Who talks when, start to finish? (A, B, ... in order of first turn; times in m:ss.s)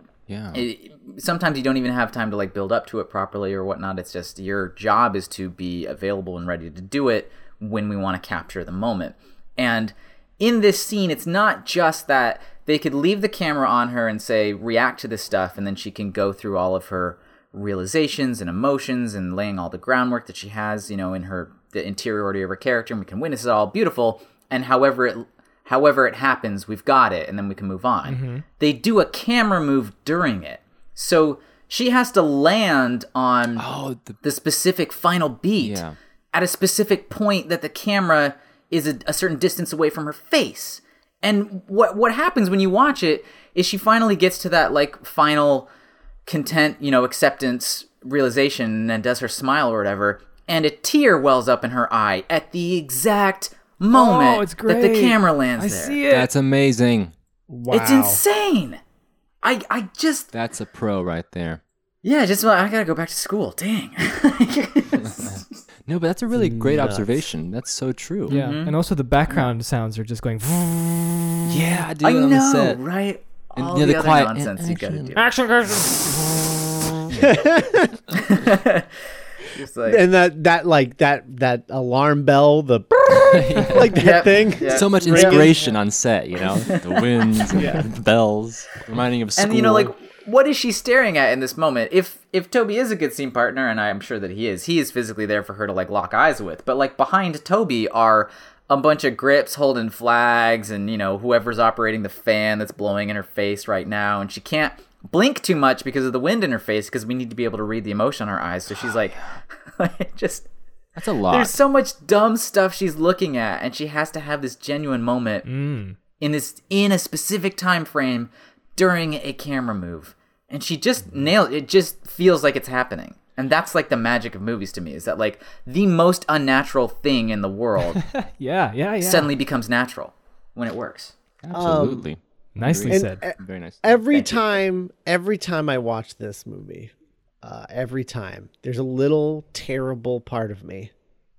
0:00.3-0:00.6 A
0:00.5-0:33.6 B
0:28.0-0:28.4 C
0:33.6-0:34.2 A
0:34.2-0:45.7 B
0:35.6-0:35.9 A
0:46.2-0:56.0 B
0:53.9-0:56.3 C
0:56.1-0:57.1 A
0:57.5-0:58.2 D
0:57.7-0:58.8 B
0:59.4-1:00.3 B
1:00.3-1:01.6 A
1:02.0-1:05.5 B
1:04.9-1:08.4 A
1:06.3-1:07.2 D
1:08.3-1:08.7 B
1:08.3-1:11.6 C
1:11.5-1:12.8 A
1:12.0-1:15.3 B
1:13.6-1:15.2 A
1:15.2-1:16.5 C
1:17.1-1:18.0 D
1:18.1-1:20.0 B
1:19.8-1:25.6 D
1:23.2-1:29.9 A
1:23.9-1:25.7 B
1:26.5-1:27.7 B
1:27.5-1:27.9 D
1:29.4-1:50.5 B
1:51.0-1:51.6 A
1:51.3-1:55.4 B
1:55.4-1:56.0 C
1:56.2-2:08.0 B
2:08.0-2:09.3 C
2:09.0-2:11.1 B
2:11.4-2:13.8 A
2:11.5-2:12.1 D
2:12.6-2:13.2 C
2:12.8-2:20.9 D
2:14.1-2:14.4 B